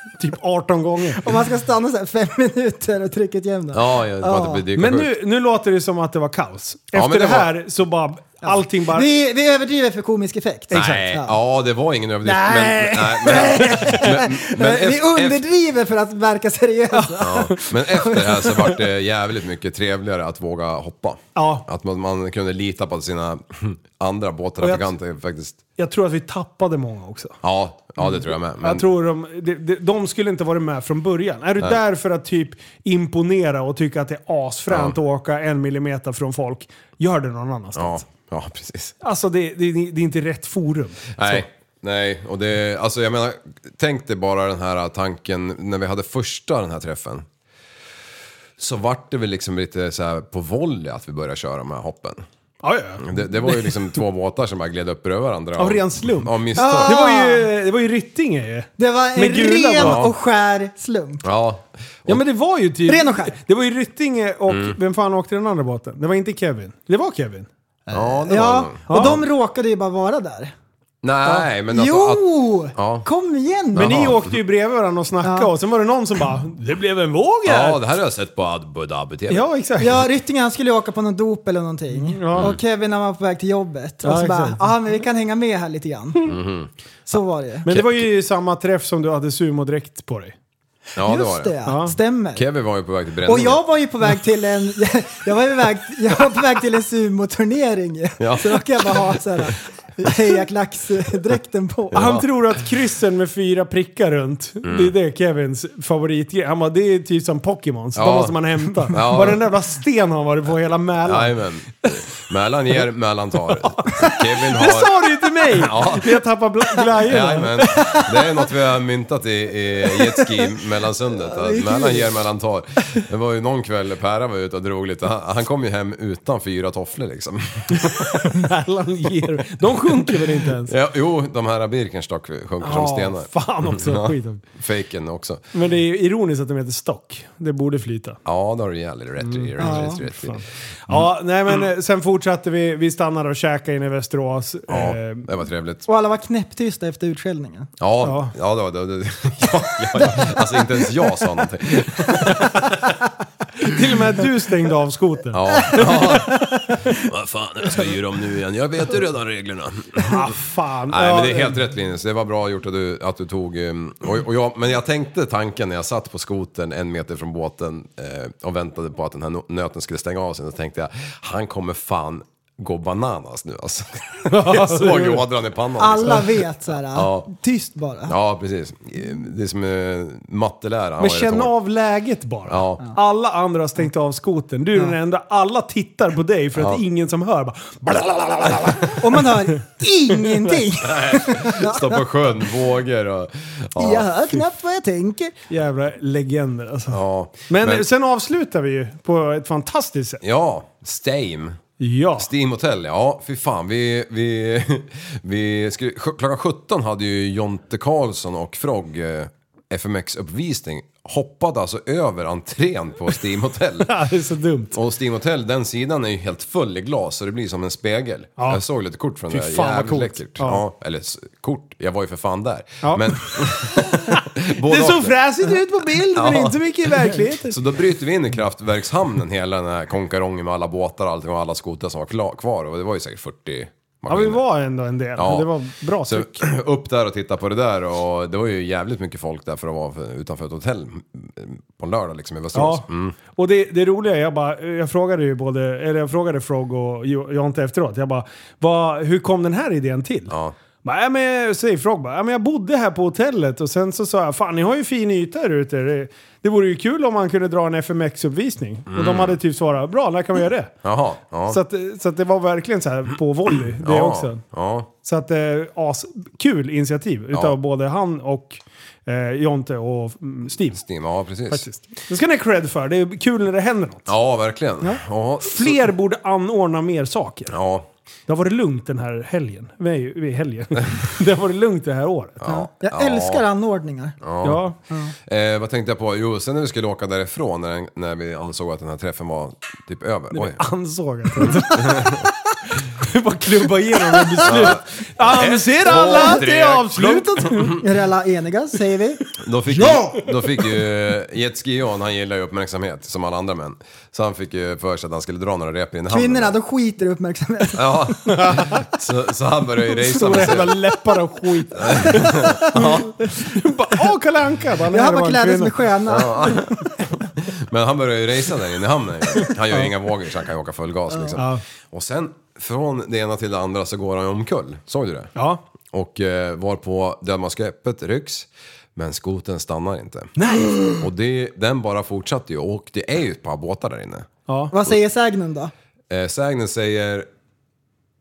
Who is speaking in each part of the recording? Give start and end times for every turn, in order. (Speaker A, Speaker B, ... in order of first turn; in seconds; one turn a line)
Speaker A: 0.2-1.2
Speaker B: 1.2-4.6
Speaker C: 3.7-5.1
Speaker A: 4.7-9.1
Speaker C: 6.9-7.5
Speaker B: 8.5-11.4
Speaker A: 10.7-11.1
Speaker C: 10.7-15.4
Speaker A: 12.2-14.2
Speaker B: 13.2-17.5
Speaker A: 16.9-17.6
Speaker C: 17.2-25.6
Speaker A: 21.3-21.6
Speaker A: 24.6-24.9
Speaker A: 25.8-27.4
Speaker C: 27.4-28.9
Speaker A: 28.0-38.0
Speaker C: 34.7-35.0
Speaker C: 37.8-38.9
Speaker A: 39.0-41.5
Speaker C: 41.1-47.2
Speaker C: 48.6-52.2
Speaker A: 52.6-54.0
Speaker C: 53.0-57.0
Speaker A: 55.6-60.0
Speaker B: 56.5-57.5
Speaker B: 58.8-61.2
Speaker C: 59.8-60.1
Speaker C: 61.2-62.2
Speaker A: 62.1-67.5
Speaker B: 62.9-63.4
Speaker C: 64.5-64.8
Speaker B: 67.9-70.5
Speaker C: 67.9-69.2
Speaker A: 68.9-69.1
Speaker C: 71.0-73.1
Speaker B: 71.7-74.1
Speaker C: 73.7-74.3
Speaker A: 73.7-77.8
Speaker B: 75.2-75.5
Speaker C: 77.4-79.5
Speaker A: 79.3-80.0
Speaker B: 79.8-86.3
Speaker A: 81.9-82.5
Speaker A: 84.0-84.7
Speaker C: 86.3-86.7
Speaker B: 87.1-87.7
Speaker A: 87.6-90.3
Speaker C: 87.7-88.0
Speaker C: 91.0-91.5
Speaker B: 91.0-92.5
Speaker A: 91.6-91.9
Speaker C: 92.3-93.6
Speaker B: 93.2-102.2
Speaker C: 98.2-99.2
Speaker C: 101.9-102.2
Speaker A: 101.9-111.4
Speaker C: 104.6-104.9
Speaker C: 107.9-109.5
Speaker C: 111.0-116.2
Speaker A: 113.7-118.0
Speaker C: 117.0-128.2
Speaker B: 121.3-122.1
Speaker A: 127.8-130.7
Speaker C: 130.6-135.4
Speaker A: 132.6-134.4
Speaker A: 135.5-138.2
Speaker C: 138.2-141.1
Speaker A: 139.2-145.3
Speaker B: 139.6-140.0
Speaker C: 144.7-145.9
Speaker B: 145.9-147.7
Speaker C: 147.8-152.7
Speaker A: 148.0-148.3
Speaker A: 152.3-152.7
Speaker A: 153.6-156.4
Speaker C: 155.3-156.4
Speaker C: 157.0-160.3
Speaker A: 160.0-161.6
Speaker C: 160.9-176.4
Speaker A: 174.3-175.2
Speaker B: 175.8-178.2
Speaker C: 176.9-177.3
Speaker C: 178.1-181.5
Speaker A: 181.0-189.2
Speaker C: 182.5-182.8
Speaker C: 186.6-186.8
Speaker B: 189.0-192.0
Speaker C: 190.8-194.1
Speaker B: 193.8-195.3
Speaker A: 195.5-200.2
Speaker C: 196.9-197.9
Speaker C: 200.2-201.6
Speaker A: 201.8-202.3
Speaker C: 202.2-213.9
Speaker A: 213.8-214.8
Speaker C: 214.7-225.2
Speaker A: 219.3-220.6
Speaker A: 222.8-227.6
Speaker C: 226.1-234.4
Speaker A: 234.1-236.4
Speaker C: 235.2-235.5
Speaker C: 236.0-243.2
Speaker A: 242.5-250.3
Speaker C: 250.3-250.5
Speaker A: 250.8-260.7
Speaker C: 258.9-259.4
Speaker C: 260.8-261.6
Speaker A: 261.5-264.4
Speaker C: 263.8-264.9
Speaker A: 265.0-270.8
Speaker C: 270.7-271.6
Speaker A: 271.5-274.1
Speaker C: 274.1-275.9
Speaker A: 275.4-277.6
Speaker C: 277.5-277.9
Speaker A: 278.3-282.4
Speaker C: 282.4-283.4
Speaker B: 282.4-284.2
Speaker C: 284.2-284.6
Speaker A: 284.4-284.8
Speaker C: 285.2-290.6
Speaker A: 290.3-297.8
Speaker C: 291.4-292.2
Speaker C: 294.4-297.8
Speaker B: 295.9-296.4
Speaker B: 297.8-299.2
Speaker C: 299.4-306.5
Speaker A: 299.8-300.2
Speaker B: 306.1-308.1
Speaker C: 307.7-310.8
Speaker A: 308.3-308.8
Speaker A: 310.1-315.8
Speaker C: 311.8-313.2
Speaker B: 314.9-316.8
Speaker C: 316.1-325.3
Speaker A: 319.4-319.9
Speaker A: 321.4-321.6
Speaker A: 325.3-325.6
Speaker C: 325.9-330.3
Speaker A: 330.4-331.0
Speaker C: 331.0-334.3
Speaker A: 334.5-334.7
Speaker B: 334.7-335.7
Speaker C: 336.1-337.3